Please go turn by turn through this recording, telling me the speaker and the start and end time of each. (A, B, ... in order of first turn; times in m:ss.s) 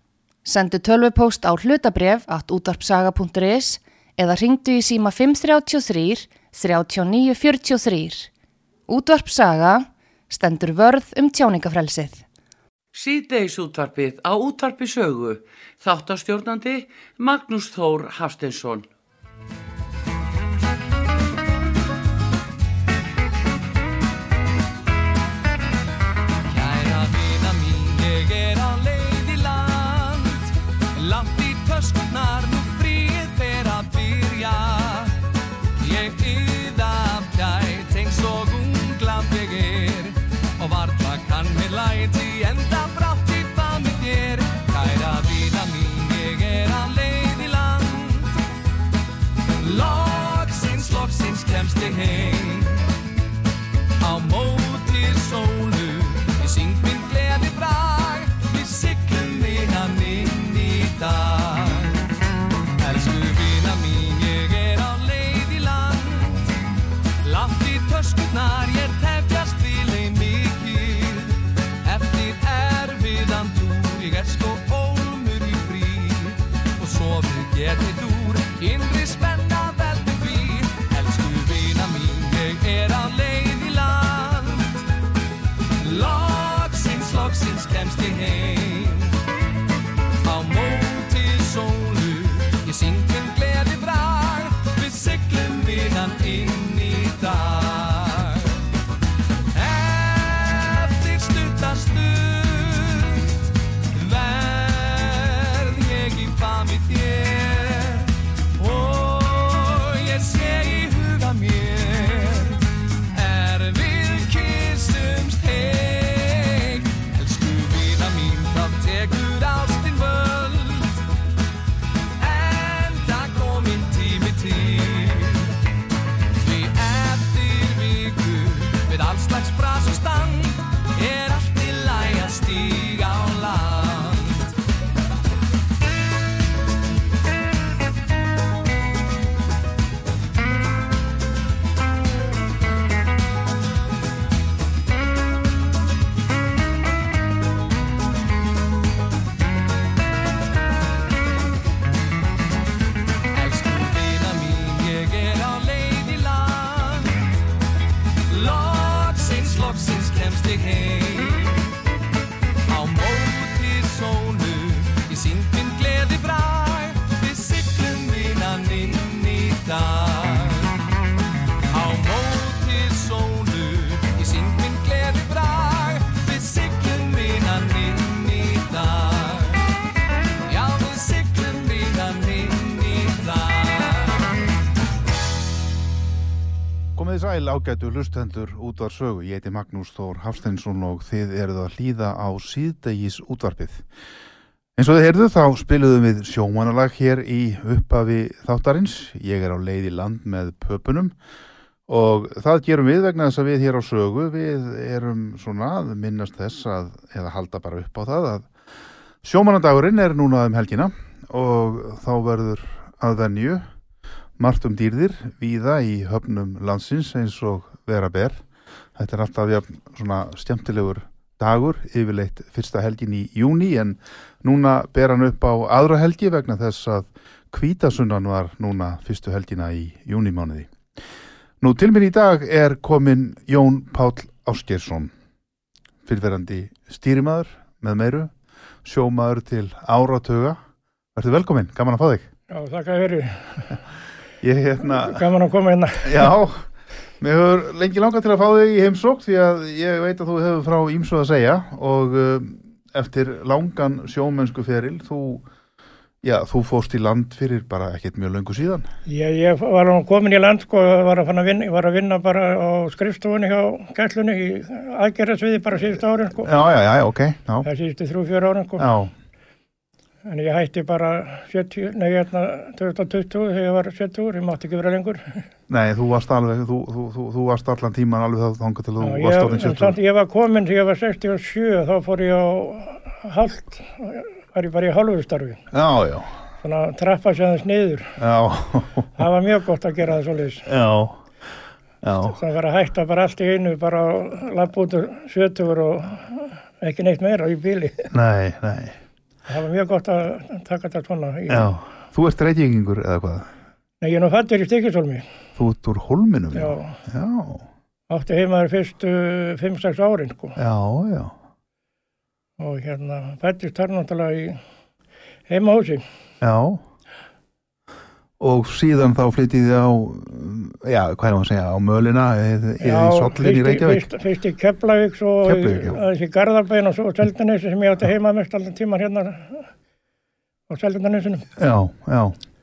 0:00.4-0:08.3 A
0:08.9-0:12.2 A
0:12.9-0:18.9 B
0:26.4-0:35.2 C
0:35.8-0:48.4 C
0:49.6-0:52.8 C
0:54.0-1:02.1 C
1:02.8-1:06.6 C
1:07.2-1:24.8 C
1:25.8-1:29.2 C
1:30.2-1:38.6 C
1:39.5-2:01.0 C
2:02.2-2:05.5 C
2:06.4-2:14.5 C
2:33.3-2:37.2 C
2:38.3-2:41.7 C
2:42.7-2:50.8 C
2:51.7-2:59.6 C
3:00.4-3:04.3 C
3:07.0-3:13.8 D
3:14.8-3:21.1 D
3:21.9-3:28.5 D
3:29.2-3:33.6 D
3:34.4-3:38.4 D
3:39.0-3:50.7 D
3:51.6-3:55.1 D
3:56.0-3:58.3 D
3:58.8-4:00.6 D
4:01.1-4:02.3 D
4:02.5-4:03.7 E
4:04.4-4:05.2 D
4:04.8-4:06.3 E
4:06.0-4:06.6 D
4:07.2-4:15.4 D
4:16.2-4:18.9 D
4:19.1-4:26.5 E
4:26.4-4:27.7 D
4:27.6-4:28.9 E
4:28.8-4:29.1 D
4:30.2-4:35.4 E
4:35.7-4:40.0 D
4:39.0-4:45.6 E
4:45.7-4:46.3 D
4:46.6-4:48.1 E
4:48.2-4:49.2 D
4:49.2-4:50.7 E
4:50.6-4:51.2 D
4:52.0-4:52.4 D
4:52.2-4:58.1 E
4:58.1-4:59.0 D
4:59.5-5:01.7 E
5:01.5-5:03.5 D
5:04.0-5:05.2 E
5:05.6-5:07.6 D
5:06.5-5:07.0 E
5:08.1-5:10.6 E
5:10.6-5:11.3 D
5:12.6-5:14.6 E
5:15.5-5:16.0 E
5:16.4-5:16.8 D
5:18.4-5:24.1 D
5:22.8-5:29.7 E
5:25.4-5:26.0 D
5:30.7-5:31.5 E
5:31.6-5:32.4 D